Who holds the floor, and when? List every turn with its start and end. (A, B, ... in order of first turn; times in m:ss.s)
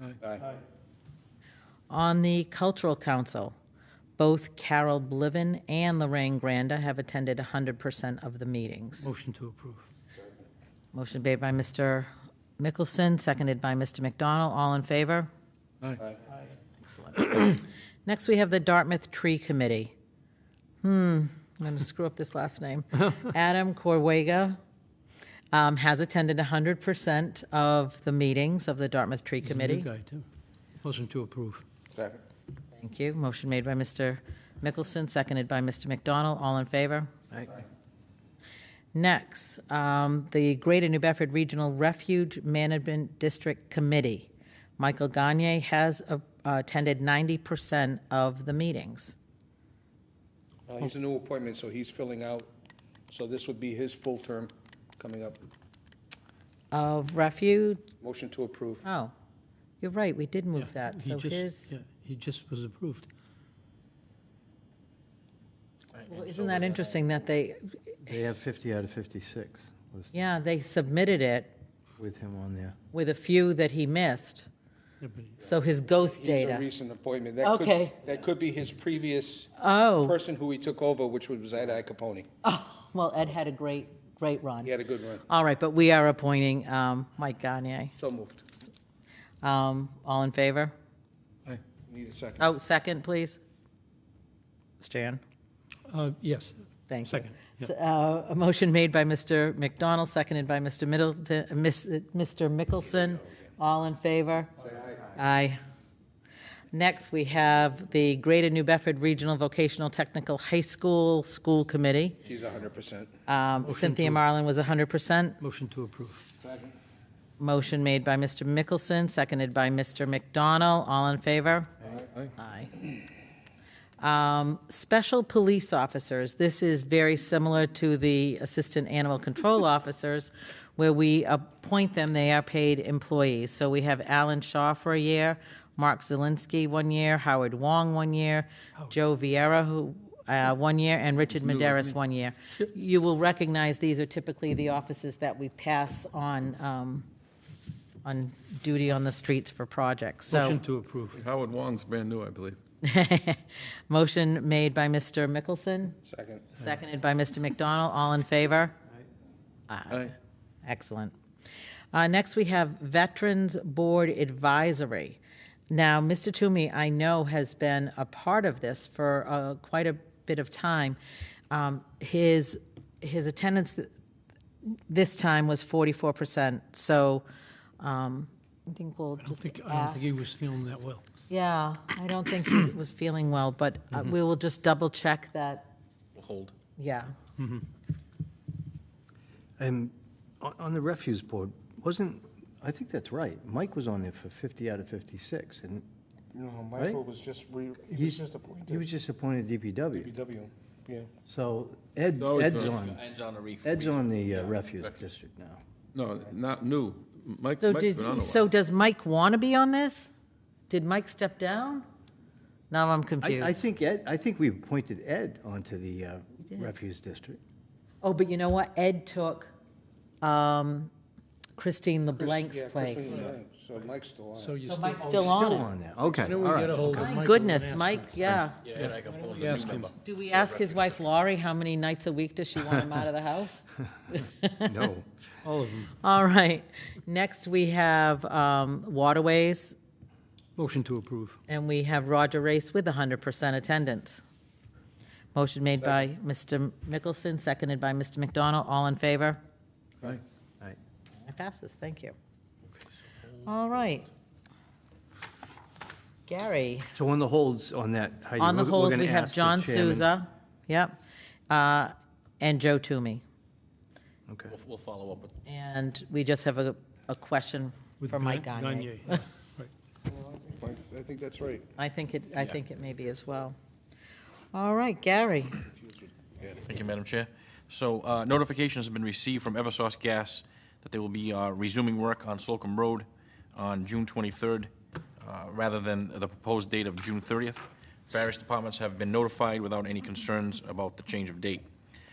0:00.2-0:00.5 A
0:01.9-0:03.5 B
0:04.2-0:09.1 B
0:09.0-0:09.9 C
0:10.9-0:15.3 B
0:16.8-0:19.9 B
0:20.8-0:24.6 B
0:25.5-0:29.9 B
0:29.4-0:30.3 C
0:30.8-0:31.6 C
0:31.9-0:32.2 A
0:32.8-0:37.1 B
0:38.9-0:49.2 B
0:50.7-0:52.5 A
0:53.1-0:55.4 A
0:56.7-0:57.9 B
0:58.0-0:58.8 A
0:58.8-0:59.1 B
0:59.8-1:01.7 B
1:00.6-1:03.1 C
1:06.0-1:08.0 B
1:06.3-1:06.7 D
1:08.0-1:10.1 E
1:10.1-1:11.5 B
1:12.0-1:12.8 E
1:12.9-1:14.5 B
1:15.0-1:15.4 C
1:15.4-1:16.7 B
1:16.0-1:22.3 A
1:17.4-1:18.0 B
1:19.6-1:20.2 B
1:22.4-1:24.7 B
1:24.6-1:25.2 A
1:25.3-1:28.0 B
1:28.0-1:28.4 A
1:29.4-1:30.7 B
1:31.8-1:32.5 A
1:32.4-1:33.4 B
1:34.8-1:35.2 B
1:35.9-1:37.7 C
1:36.9-1:44.5 B
1:44.6-1:45.1 A
1:45.1-1:45.6 B
1:46.7-1:52.2 B
1:52.2-1:53.2 A
1:53.3-1:55.4 B
1:53.6-1:54.2 C
1:55.4-1:56.3 C
1:56.4-1:56.7 A
1:57.4-2:01.7 B
2:02.4-2:02.8 B
2:04.0-2:27.1 B
2:21.4-2:21.9 F
2:28.0-2:30.6 B
2:30.3-2:31.2 C
2:31.1-2:32.6 F
2:32.8-2:36.0 B
2:36.1-2:36.6 A
2:36.6-2:38.7 B
2:39.7-2:40.1 B
2:40.6-2:41.1 B
2:41.9-2:45.2 B
2:45.7-2:51.0 B
2:51.5-2:53.9 B
2:54.7-2:57.2 B
2:57.8-3:00.2 B
2:59.2-3:01.0 C
3:01.3-3:05.7 B
3:06.2-3:06.5 D
3:06.8-3:07.1 B
3:07.4-3:07.6 C
3:09.6-3:15.8 E
3:16.3-3:18.8 A
3:17.9-3:20.1 E
3:20.0-3:21.1 A
3:21.3-3:23.0 E
3:22.2-3:22.7 F
3:22.4-3:25.0 D
3:23.6-3:25.6 E
3:25.9-3:28.5 F
3:27.6-3:30.1 B
3:30.7-3:31.8 B
3:32.7-3:33.6 B
3:33.2-3:37.4 E
3:38.0-3:39.5 B
3:40.2-3:40.9 B
3:41.6-3:43.3 B
3:42.2-3:44.6 A
3:44.4-3:45.4 C
3:44.6-3:45.7 B
3:45.2-3:47.2 E
3:46.1-3:48.2 C
3:46.9-3:48.6 B
3:48.4-3:50.8 D
3:49.4-3:49.9 C
3:50.0-3:54.9 B
3:54.6-3:55.1 E
3:55.4-3:55.9 C
3:56.0-3:59.8 B
4:00.6-4:01.4 C
4:01.5-4:04.2 B
4:05.4-4:09.4 B
4:10.0-4:10.8 E
4:11.2-4:12.2 B
4:13.4-4:14.1 B
4:16.3-4:16.9 B
4:17.0-4:20.1 E
4:18.4-4:21.0 B
4:21.5-4:23.2 B
4:24.3-4:24.6 E
4:24.5-4:25.3 D
4:25.5-4:29.3 B
4:28.0-4:29.7 C
4:30.2-4:31.6 A
4:31.8-4:33.6 B
4:34.5-4:35.7 B
4:36.2-4:36.6 A
4:36.6-4:51.7 D